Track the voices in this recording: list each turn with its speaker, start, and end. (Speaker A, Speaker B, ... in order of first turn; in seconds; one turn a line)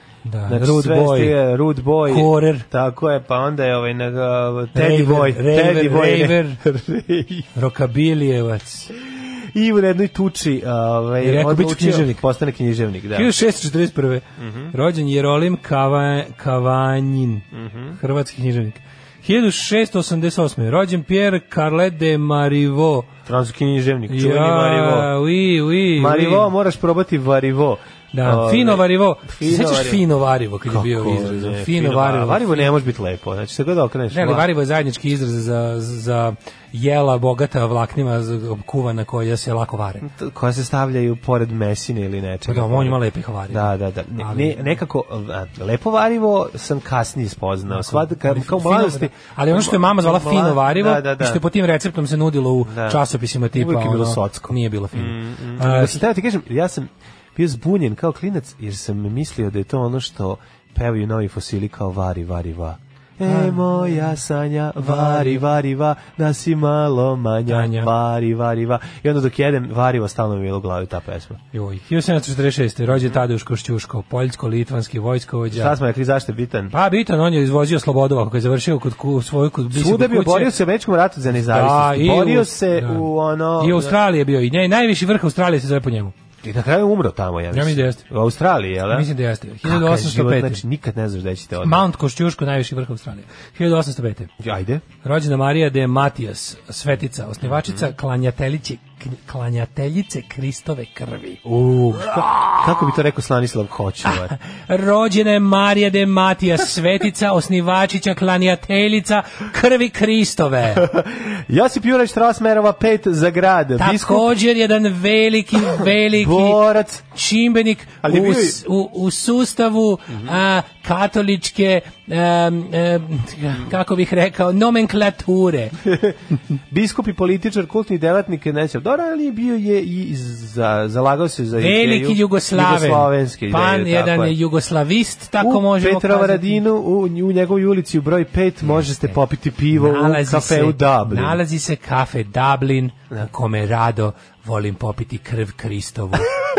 Speaker A: 0.3-1.4
Speaker B: 0.5-7.5
Speaker A: 2.1-2.7
Speaker A: 4.8-6.6
Speaker A: 7.5-8.9
Speaker B: 9.1-13.3
Speaker A: 11.2-12.2
Speaker A: 13.1-17.5
Speaker B: 14.4-14.7
Speaker B: 17.5-18.0
Speaker A: 18.0-23.1
Speaker B: 23.3-25.1
Speaker A: 24.1-26.5
Speaker B: 26.0-30.1
Speaker A: 28.1-32.7
Speaker B: 30.6-34.5
Speaker A: 34.1-40.0
Speaker B: 40.0-51.4
Speaker A: 42.5-44.6
Speaker A: 47.7-56.0
Speaker B: 52.6-53.0
Speaker B: 53.5-71.4
Speaker A: 63.2-64.1
Speaker A: 64.8-65.4
Speaker A: 67.5-67.9
Speaker A: 71.5-75.8
Speaker B: 75.5-76.7
Speaker A: 76.7-80.5
Speaker B: 79.7-84.0
Speaker A: 81.4-86.1
Speaker B: 86.4-89.1
Speaker A: 87.5-88.0
Speaker A: 88.9-90.6
Speaker B: 89.6-91.9
Speaker A: 91.6-94.3
Speaker B: 94.4-94.8
Speaker A: 95.0-101.4
Speaker B: 97.4-97.9
Speaker B: 101.5-104.3
Speaker A: 102.1-102.6
Speaker A: 104.1-110.8
Speaker B: 110.7-114.3
Speaker A: 113.8-125.8
Speaker B: 115.8-117.0
Speaker B: 118.0-118.6
Speaker B: 125.8-126.2
Speaker B: 126.7-134.4
Speaker A: 131.6-136.6
Speaker B: 135.4-141.4
Speaker A: 138.8-139.2
Speaker A: 139.7-146.3